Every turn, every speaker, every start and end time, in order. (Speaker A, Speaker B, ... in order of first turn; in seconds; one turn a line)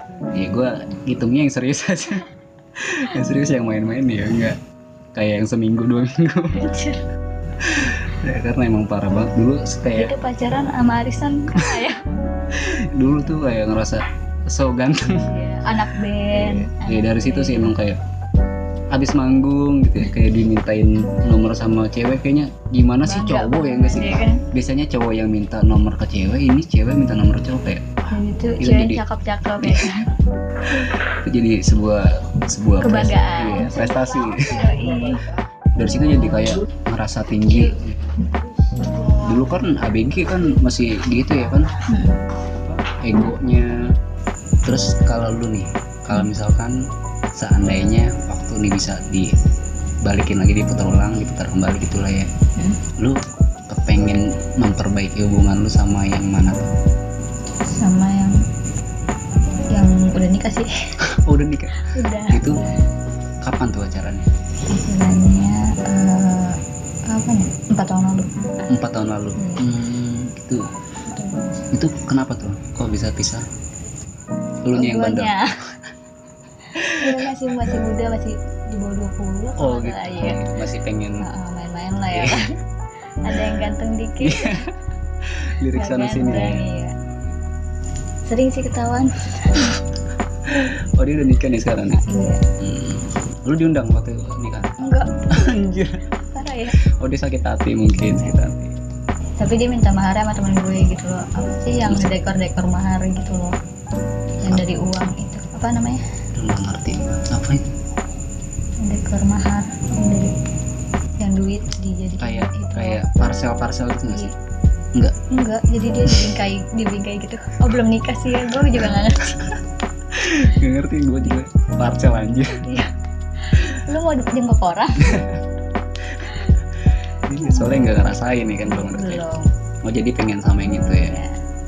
Speaker A: 0.3-4.6
Speaker A: 5.2-6.6
Speaker B: 6.5-7.0
Speaker A: 7.6-10.1
Speaker B: 9.9-12.0
Speaker A: 12.5-15.3
Speaker B: 15.1-17.8
Speaker A: 16.3-18.0
Speaker A: 18.9-28.1
Speaker B: 23.0-24.5
Speaker B: 28.1-30.1
Speaker A: 28.6-29.0
Speaker A: 29.6-30.0
Speaker A: 31.0-34.8
Speaker B: 32.8-35.2
Speaker A: 35.8-38.1
Speaker A: 39.1-41.7
Speaker B: 41.9-42.2
Speaker A: 43.0-43.9
Speaker A: 44.6-49.4
Speaker A: 50.0-52.3
Speaker A: 53.0-56.7
Speaker B: 57.7-58.4
Speaker B: 59.7-60.7
Speaker A: 61.0-62.6
Speaker B: 61.8-62.5
Speaker A: 63.4-64.3
Speaker B: 64.7-68.7
Speaker A: 68.7-70.7
Speaker B: 69.4-69.7
Speaker B: 71.1-71.6
Speaker A: 71.7-73.5
Speaker A: 74.7-75.4
Speaker B: 74.7-75.6
Speaker A: 76.8-77.3
Speaker B: 76.8-80.5
Speaker A: 79.6-81.3
Speaker B: 81.2-82.6
Speaker A: 82.1-82.5
Speaker B: 83.2-84.7
Speaker A: 84.2-84.7
Speaker A: 85.2-86.7
Speaker B: 85.7-87.0
Speaker B: 88.3-89.8
Speaker A: 90.5-92.0
Speaker B: 91.9-92.5
Speaker A: 92.6-94.8
Speaker B: 94.8-95.5
Speaker A: 95.3-96.1
Speaker B: 96.2-96.8
Speaker A: 96.8-98.8
Speaker B: 99.4-103.6
Speaker A: 101.9-102.2
Speaker B: 104.4-106.0
Speaker A: 106.3-107.7
Speaker B: 108.8-110.4
Speaker B: 111.2-113.0
Speaker A: 112.2-114.3
Speaker B: 114.1-114.3
Speaker B: 115.3-119.5
Speaker A: 116.0-116.3
Speaker A: 120.1-122.7
Speaker B: 122.6-125.3
Speaker A: 125.0-125.4
Speaker A: 126.1-126.4
Speaker A: 127.2-129.2
Speaker B: 127.4-127.7
Speaker B: 128.7-129.5
Speaker A: 129.8-131.2
Speaker B: 131.0-131.3